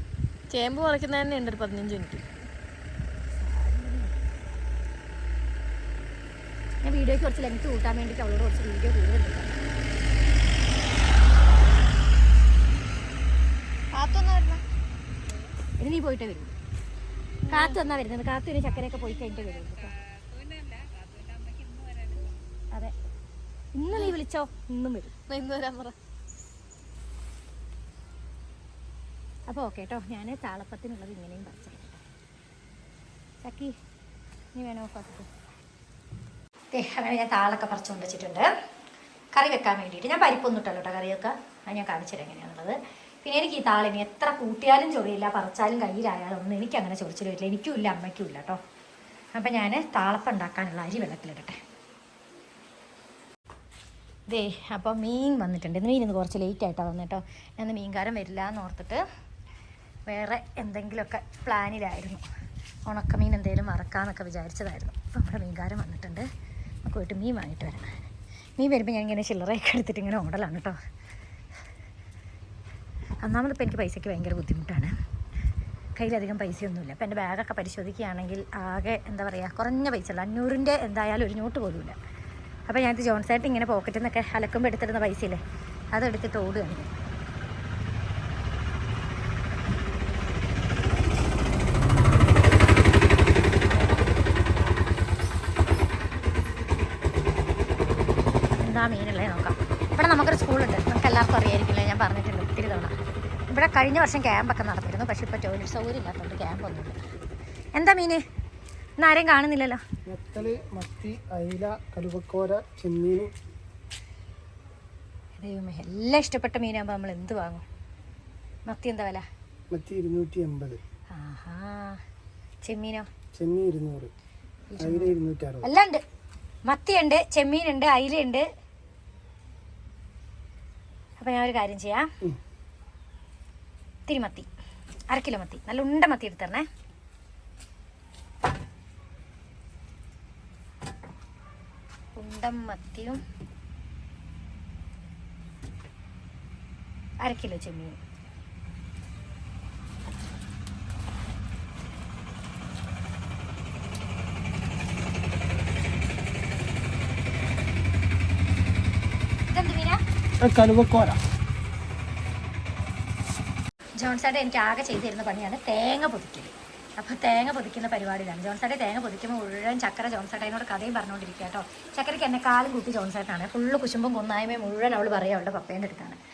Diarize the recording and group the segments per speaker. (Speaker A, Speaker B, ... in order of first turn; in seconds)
Speaker A: 0.5-2.2, 13.9-14.6, 17.5-17.8, 25.3-25.9
Speaker B: 3.4-4.2, 6.8-9.6, 15.8-16.5, 17.5-19.9, 23.8-25.1, 29.5-32.0, 33.4-33.8, 34.5-35.3, 36.7-38.5, 39.3-48.6, 49.3-51.6, 54.3-59.0, 60.1-62.2, 62.9-66.3, 66.8-67.9, 68.6-70.8, 73.2-74.9, 76.0-82.0, 82.7-85.4, 85.9-86.9, 98.6-103.0, 103.5-107.0, 107.7-108.2, 109.0-109.8, 115.4-117.6, 118.7-119.3, 121.1-122.0, 122.6-123.1, 124.7-126.0, 126.7-128.5, 131.2-132.1, 134.1-134.5, 135.1-136.7, 142.2-143.2, 147.2-148.0, 159.5-160.0, 164.0-176.2
Speaker C: 110.1-113.3, 119.7-120.8, 123.3-124.1, 124.8-125.7, 160.4-161.2